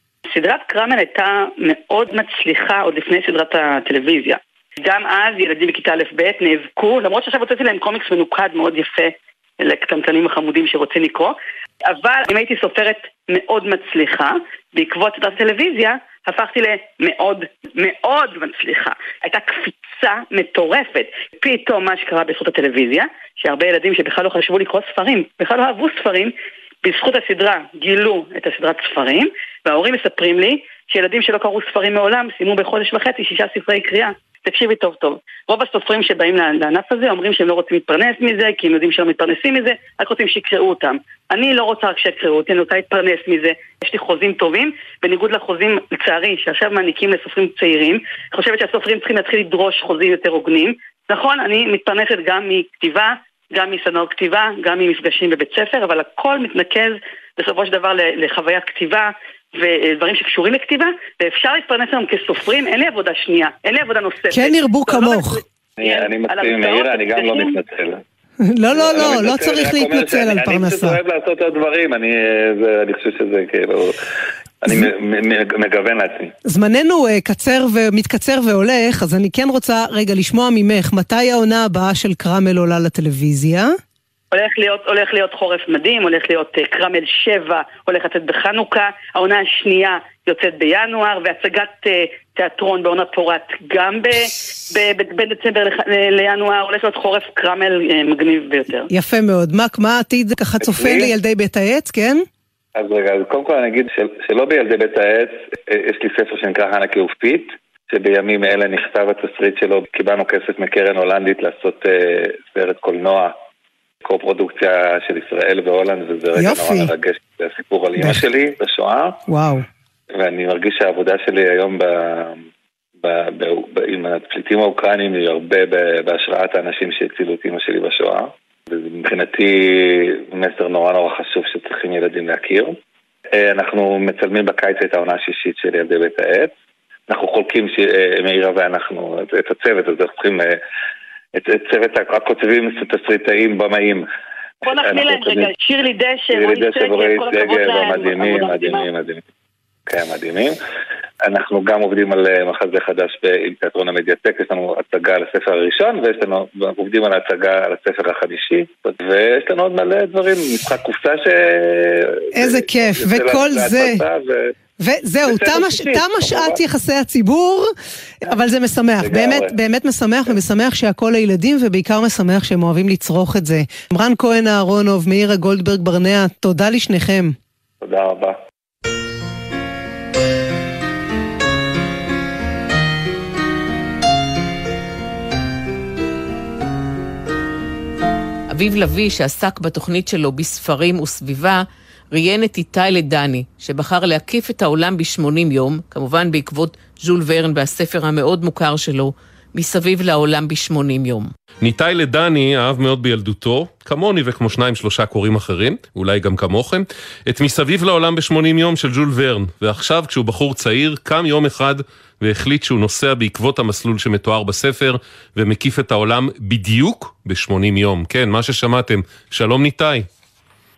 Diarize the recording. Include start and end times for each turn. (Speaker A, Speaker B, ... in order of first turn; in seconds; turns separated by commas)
Speaker A: 0.3-67.5, Speaker B: 64.3-65.4, Speaker C: 65.8-68.0, Speaker B: 68.6-71.0, Speaker C: 68.7-74.0, Speaker C: 74.6-76.3, Speaker B: 76.5-83.7, Speaker A: 84.3-98.9, Speaker B: 98.9-102.2, Speaker C: 100.6-101.1, Speaker C: 102.8-113.3, Speaker C: 114.0-119.2, Speaker B: 116.4-116.9, Speaker B: 118.0-118.2, Speaker B: 119.3-119.6, Speaker C: 120.2-122.4, Speaker C: 123.0-132.7, Speaker C: 133.3-136.5, Speaker C: 137.1-140.6, Speaker C: 141.3-144.1, Speaker A: 144.6-148.9, Speaker C: 144.6-145.5, Speaker C: 146.3-149.2, Speaker C: 149.9-150.6, Speaker C: 151.2-164.5, Speaker B: 162.3-164.0, Speaker B: 164.8-167.7, Speaker C: 165.3-166.6, Speaker B: 168.2-177.3, Speaker C: 169.0-169.5, Speaker C: 177.8-178.4, Speaker D: 188.5-191.6, Speaker D: 192.1-201.3, Speaker E: 201.6-220.1